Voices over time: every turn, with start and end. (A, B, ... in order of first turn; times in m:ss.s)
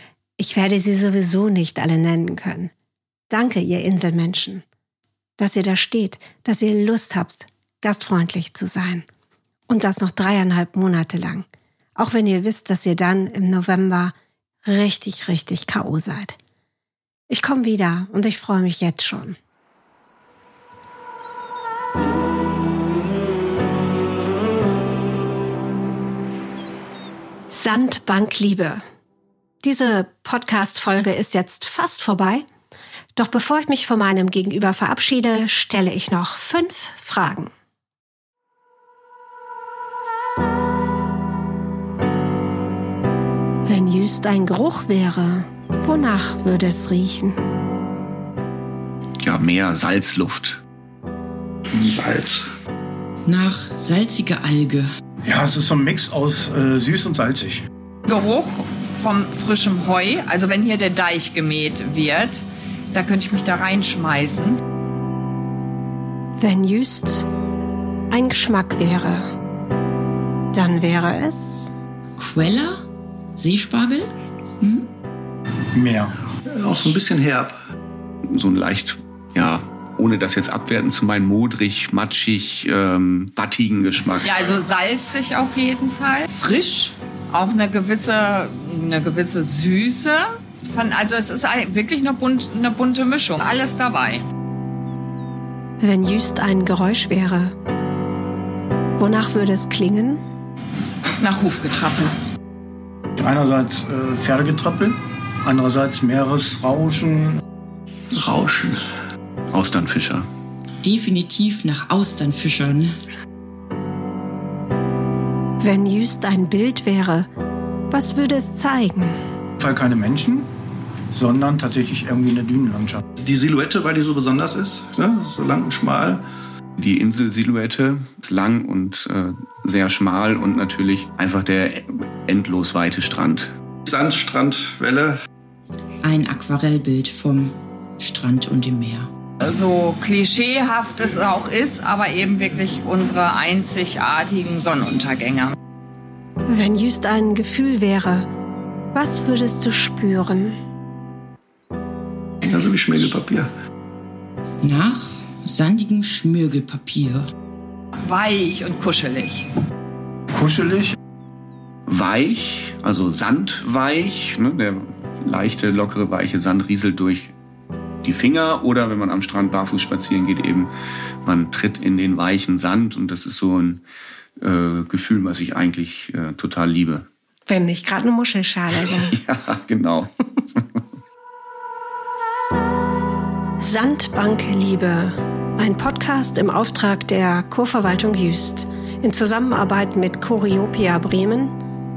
0:00.4-0:02.7 A
0:03.3-0:04.6 A
0:05.4-0:09.0 A
0:09.7-0:14.1 A
0:14.6-0:16.4 A
0:17.3-0:19.4 A
0:27.5-0:28.8 A
0:29.6-0:32.4 A
0:33.2-0:37.5 A
0:43.7-0:47.4 A
0:49.2-0:50.6 B
0:51.7-0:52.5 C
0:53.2-0:54.9 D
0:55.2-0:57.7 E
0:58.1-1:04.6 F
1:06.4-1:07.2 A
1:08.1-1:09.3 A
1:10.5-1:11.7 A
1:12.2-1:12.8 D
1:13.4-1:14.9 D
1:15.7-1:16.2 E
1:16.5-1:17.6 C
1:18.3-1:24.6 B
1:24.2-1:34.2 F
1:35.8-1:37.5 A
1:39.0-1:40.2 A
1:41.2-1:42.2 F
1:43.2-1:47.4 E
1:48.1-1:48.8 C
1:49.5-1:50.3 B
1:50.8-1:53.0 D
1:55.6-1:57.3 A
1:57.9-1:59.2 A
1:59.6-2:00.5 E
2:01.1-2:03.0 E
2:03.2-2:06.2 C
2:06.8-2:13.5 B
2:13.9-2:15.2 C
2:16.0-2:19.1 D
2:19.4-2:25.5 F
2:26.5-2:28.3 A
2:28.9-2:30.6 A
2:32.4-2:33.5 C
2:34.6-2:37.3 D
2:38.0-2:39.4 F
2:40.3-2:41.0 E
2:41.9-2:47.3 B
2:48.0-2:50.7 B
2:51.2-2:53.8 B
2:54.4-2:57.1 B
2:57.5-2:59.2 A
2:58.8-3:00.1 B
3:03.6-3:11.5 A